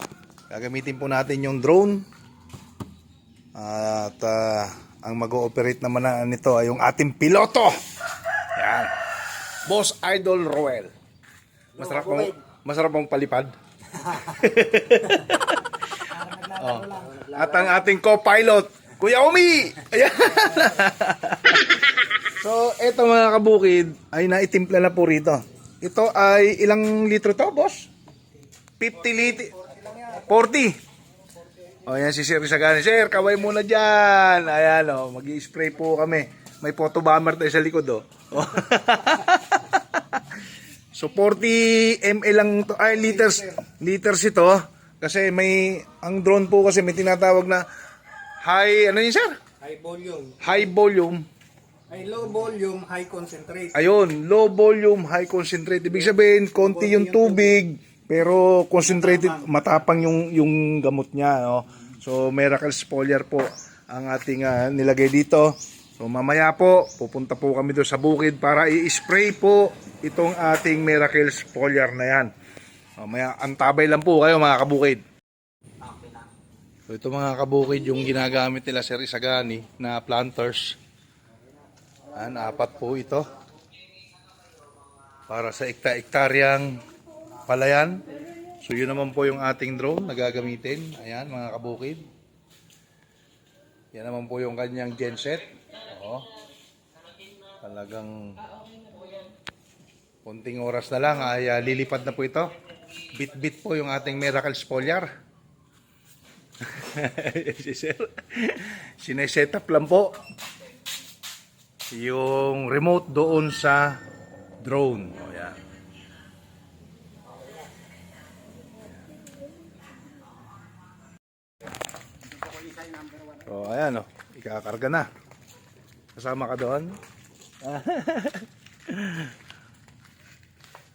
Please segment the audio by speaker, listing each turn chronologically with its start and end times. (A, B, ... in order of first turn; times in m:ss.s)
0:00.5-0:02.1 A
0:03.6-0:07.8 A
0:08.6-0:09.0 A
0:09.6-0:10.9 A
0:11.8-0:15.6 A
0:11.8-0:12.3 B
0:16.1-0:17.8 B
0:16.6-0:27.9 A
0:28.8-0:30.8 A
0:29.6-0:30.2 B
0:31.8-0:40.4 A
0:40.9-0:47.7 A
0:43.0-0:43.6 B
0:48.4-0:49.4 A
0:49.6-0:50.6 B
0:50.4-0:51.3 A
0:51.9-0:53.8 B
0:53.7-1:12.3 A
0:56.6-0:57.6 B
0:59.0-0:59.4 B
1:13.0-1:15.0 A
1:16.9-1:20.8 A
1:22.1-1:23.3 A
1:25.3-1:26.8 A
1:27.4-1:32.1 A
1:33.9-1:36.3 A
1:37.6-1:38.4 A
1:40.2-1:45.1 A
1:46.6-1:50.2 A
1:51.9-1:54.0 A
1:54.6-1:55.6 A
2:03.4-2:05.1 A
2:06.2-2:07.0 A
2:07.6-2:09.3 A